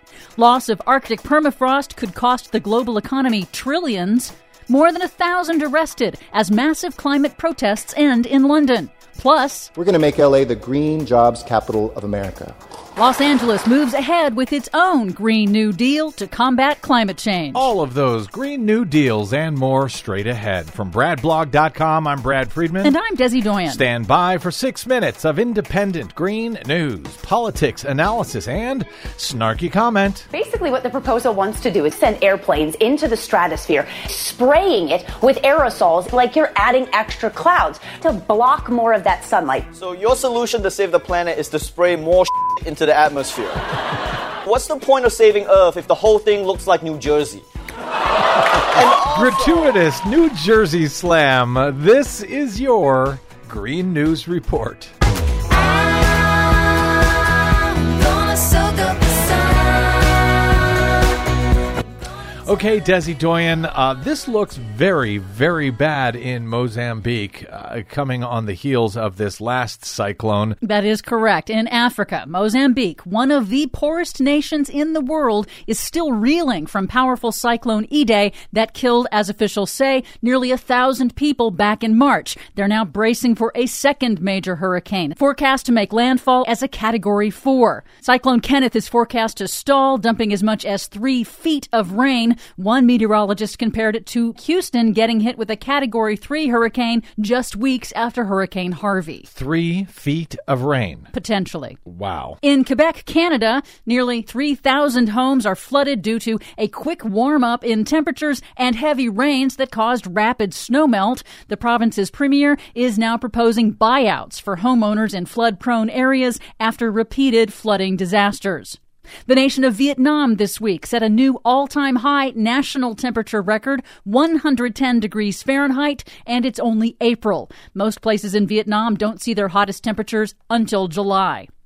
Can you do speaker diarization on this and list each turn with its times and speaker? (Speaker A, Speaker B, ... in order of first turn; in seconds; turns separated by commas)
Speaker A: 0.4-9.7, Speaker B: 9.8-12.5, Speaker A: 12.9-17.7, Speaker C: 17.5-22.9, Speaker A: 22.8-23.8, Speaker C: 23.7-30.3, Speaker D: 30.3-39.7, Speaker E: 39.8-43.5, Speaker E: 44.5-47.4, Speaker E: 48.8-49.3, Speaker C: 49.0-54.9, Speaker D: 58.1-59.5, Speaker C: 62.5-70.6, Speaker A: 70.6-99.3, Speaker C: 99.3-101.1, Speaker A: 101.1-101.8, Speaker C: 101.8-102.4, Speaker A: 102.4-131.5